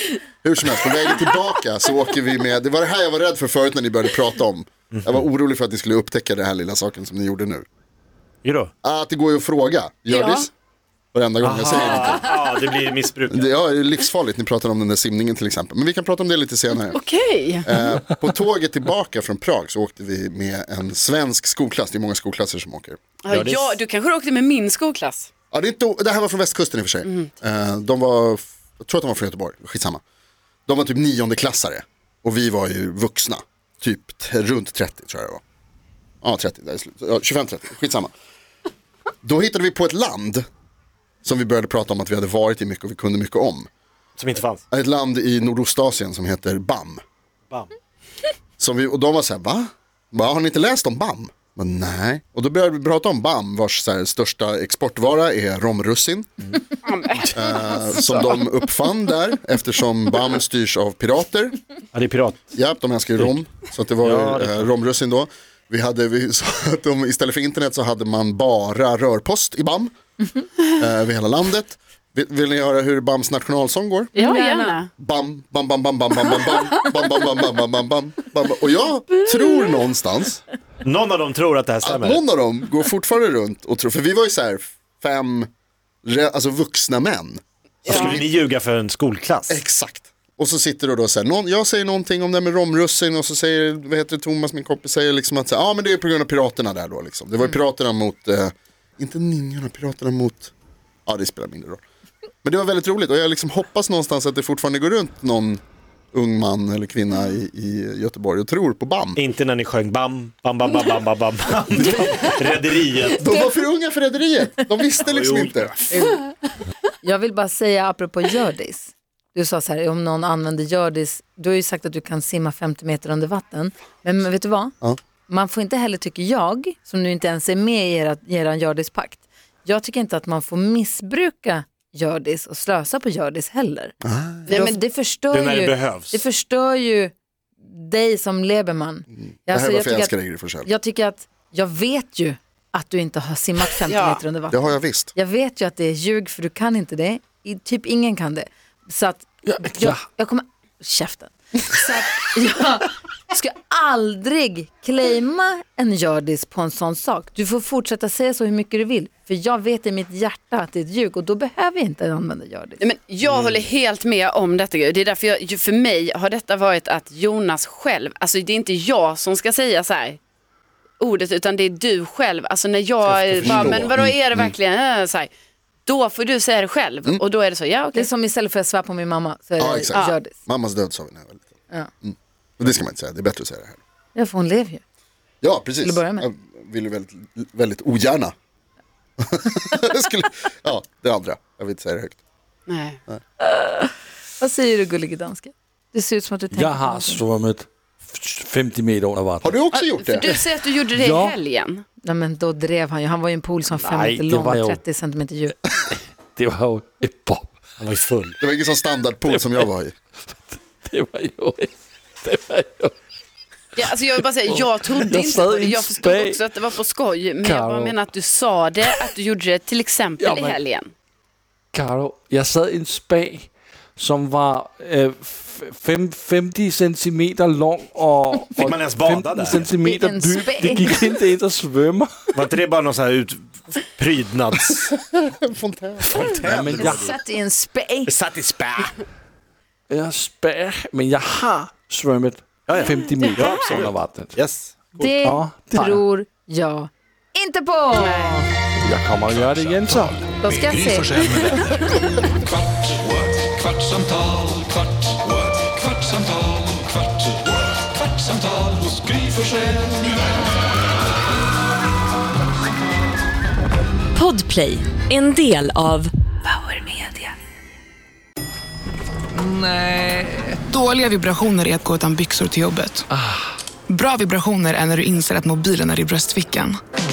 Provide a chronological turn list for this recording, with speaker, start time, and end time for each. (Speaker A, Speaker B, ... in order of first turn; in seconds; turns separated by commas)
Speaker A: 0.4-7.7, Speaker B: 4.9-5.2, Speaker B: 8.4-8.7, Speaker A: 8.8-10.5, Speaker C: 10.1-10.5, Speaker A: 11.1-12.4, Speaker B: 11.4-13.6, Speaker A: 13.3-17.0, Speaker C: 16.9-17.7, Speaker A: 17.6-23.0, Speaker C: 23.2-25.3, Speaker B: 23.3-23.8, Speaker A: 25.5-30.0, Speaker C: 27.0-27.3, Speaker A: 30.7-35.4, Speaker A: 36.2-38.1, Speaker A: 39.2-40.4, Speaker A: 41.2-43.7, Speaker B: 44.2-44.6, Speaker A: 44.7-47.0, Speaker A: 48.6-56.3, Speaker C: 56.8-58.1, Speaker A: 57.3-61.6, Speaker B: 61.9-62.5, Speaker A: 62.5-69.9, Speaker B: 64.0-64.7, Speaker A: 70.7-74.1, Speaker C: 74.1-74.9, Speaker D: 74.2-74.8, Speaker A: 75.0-80.4, Speaker B: 80.8-82.2, Speaker A: 81.8-85.5, Speaker A: 86.0-88.2, Speaker B: 87.8-89.6, Speaker C: 87.9-88.2, Speaker A: 89.5-100.5, Speaker A: 101.1-101.8, Speaker A: 102.4-105.6, Speaker A: 106.1-109.2, Speaker B: 109.2-113.3, Speaker A: 113.1-115.8, Speaker B: 115.0-115.9, Speaker D: 115.9-116.3, Speaker D: 117.0-124.8, Speaker D: 125.3-133.9, Speaker A: 134.0-134.6, Speaker D: 134.5-162.8, Speaker C: 134.5-134.8, Speaker B: 135.3-136.2, Speaker A: 139.5-140.7, Speaker C: 143.9-144.2, Speaker A: 144.5-145.1, Speaker E: 149.5-150.0, Speaker C: 162.8-170.2, Speaker B: 163.2-163.7, Speaker C: 171.0-175.3, Speaker A: 173.4-174.5, Speaker B: 173.4-173.8, Speaker C: 175.8-178.1, Speaker D: 177.9-180.3, Speaker A: 179.6-181.5, Speaker A: 182.0-183.8, Speaker D: 184.1-184.8, Speaker A: 185.4-188.3, Speaker D: 185.8-186.2, Speaker A: 189.2-192.2, Speaker C: 192.7-193.0, Speaker D: 193.4-197.2, Speaker E: 196.5-199.6, Speaker A: 199.4-200.3, Speaker C: 199.7-201.8, Speaker E: 200.9-201.3, Speaker D: 202.0-205.6, Speaker B: 203.7-204.2, Speaker E: 204.3-204.8, Speaker E: 206.3-207.5, Speaker B: 207.8-208.4, Speaker A: 208.4-209.9, Speaker E: 209.3-209.7, Speaker E: 210.3-212.9, Speaker C: 213.7-220.9, Speaker E: 214.4-216.4, Speaker E: 217.4-218.0, Speaker E: 220.2-220.6, Speaker E: 221.7-232.4, Speaker B: 228.6-229.7, Speaker D: 229.8-231.1, Speaker B: 232.3-234.9, Speaker A: 234.9-236.3, Speaker B: 236.0-237.2, Speaker E: 236.4-237.1, Speaker D: 236.8-238.1, Speaker B: 238.1-238.9, Speaker E: 239.9-244.4, Speaker B: 242.7-245.1, Speaker C: 243.2-243.5, Speaker D: 245.0-248.5, Speaker E: 245.2-246.0, Speaker C: 247.9-248.4, Speaker E: 248.8-250.2, Speaker F: 249.2-252.0, Speaker D: 250.4-251.4, Speaker G: 264.1-267.3, Speaker H: 270.5-273.1, Speaker H: 273.9-276.8